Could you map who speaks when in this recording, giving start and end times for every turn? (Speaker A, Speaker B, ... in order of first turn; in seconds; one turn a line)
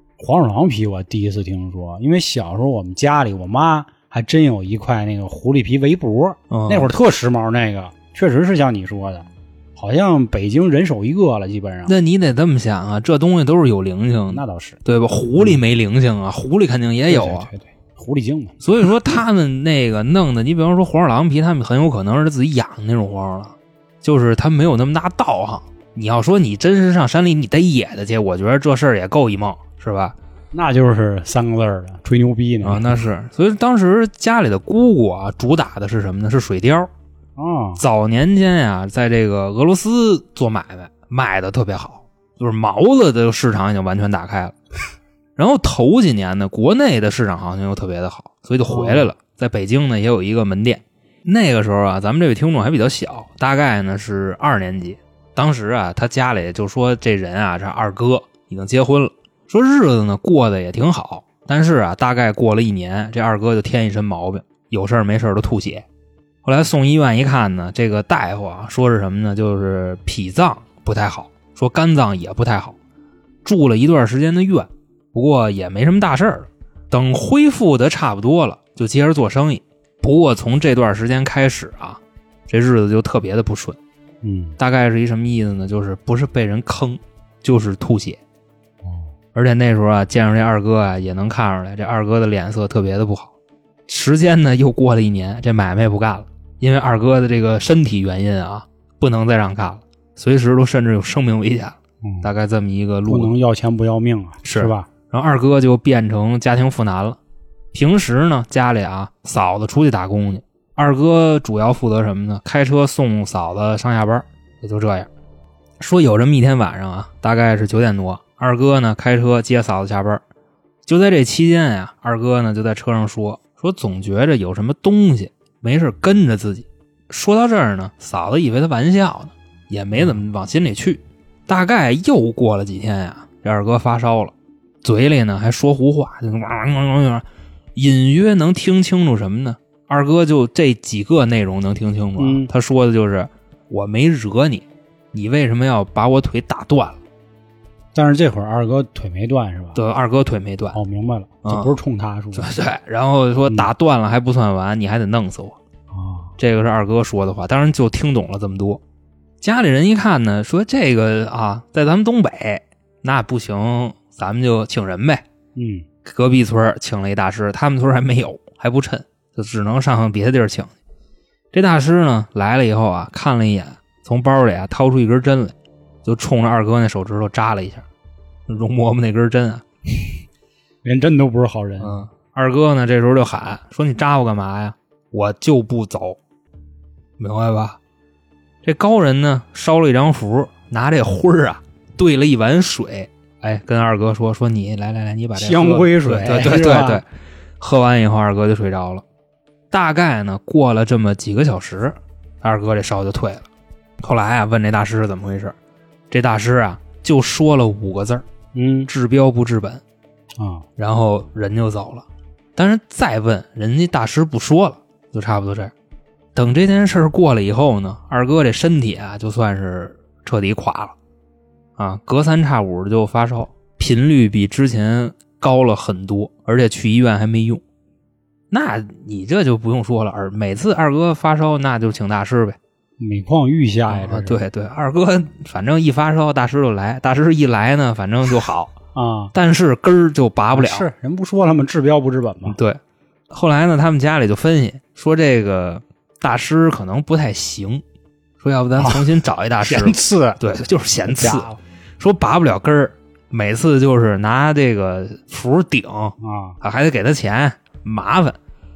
Speaker A: 0.2-11.9
Speaker B: 6.5-6.9
Speaker B: 11.9-17.5
Speaker A: 14.3-14.8
Speaker A: 17.1-18.9
Speaker B: 18.6-30.1
Speaker A: 30.5-33.0
Speaker B: 32.6-36.9
Speaker A: 37.4-37.8
Speaker B: 37.8-44.5
Speaker B: 45.4-65.9
Speaker A: 48.7-49.1
Speaker B: 66.4-72.8
Speaker B: 73.4-83.8
Speaker A: 84.2-84.6
Speaker B: 84.6-88.2
Speaker A: 88.8-89.1
Speaker B: 89.3-93.3
Speaker B: 93.9-103.3
Speaker A: 102.0-102.3
Speaker A: 103.0-104.9
Speaker B: 104.4-107.2
Speaker B: 107.7-115.1
Speaker B: 115.8-120.2
Speaker B: 120.9-147.0
Speaker A: 142.2-142.5
Speaker A: 147.9-149.8
Speaker B: 149.8-150.8
Speaker A: 150.7-152.5
Speaker B: 151.4-151.7
Speaker B: 152.3-155.6
Speaker A: 155.9-156.3
Speaker B: 156.4-158.8
Speaker B: 159.4-165.2
Speaker A: 165.6-165.9
Speaker B: 166.0-170.7
Speaker B: 171.5-177.8
Speaker B: 178.5-179.6
Speaker A: 180.8-182.0
Speaker B: 181.8-186.2
Speaker B: 187.2-187.8
Speaker B: 188.6-197.0
Speaker A: 195.4-197.0
Speaker B: 197.6-199.0
Speaker B: 199.7-203.5
Speaker B: 204.0-205.6
Speaker B: 206.1-208.2
Speaker A: 208.5-208.9
Speaker B: 208.9-209.8
Speaker A: 210.4-210.7
Speaker B: 210.8-215.7
Speaker B: 216.3-221.0
Speaker B: 221.8-227.6
Speaker B: 228.5-232.6
Speaker A: 233.0-234.4
Speaker B: 233.9-238.7
Speaker A: 238.9-239.3
Speaker B: 239.3-240.9
Speaker A: 240.5-242.6
Speaker B: 242.5-247.8
Speaker B: 248.4-258.4
Speaker A: 248.8-250.4
Speaker A: 251.1-251.6
Speaker A: 256.2-256.6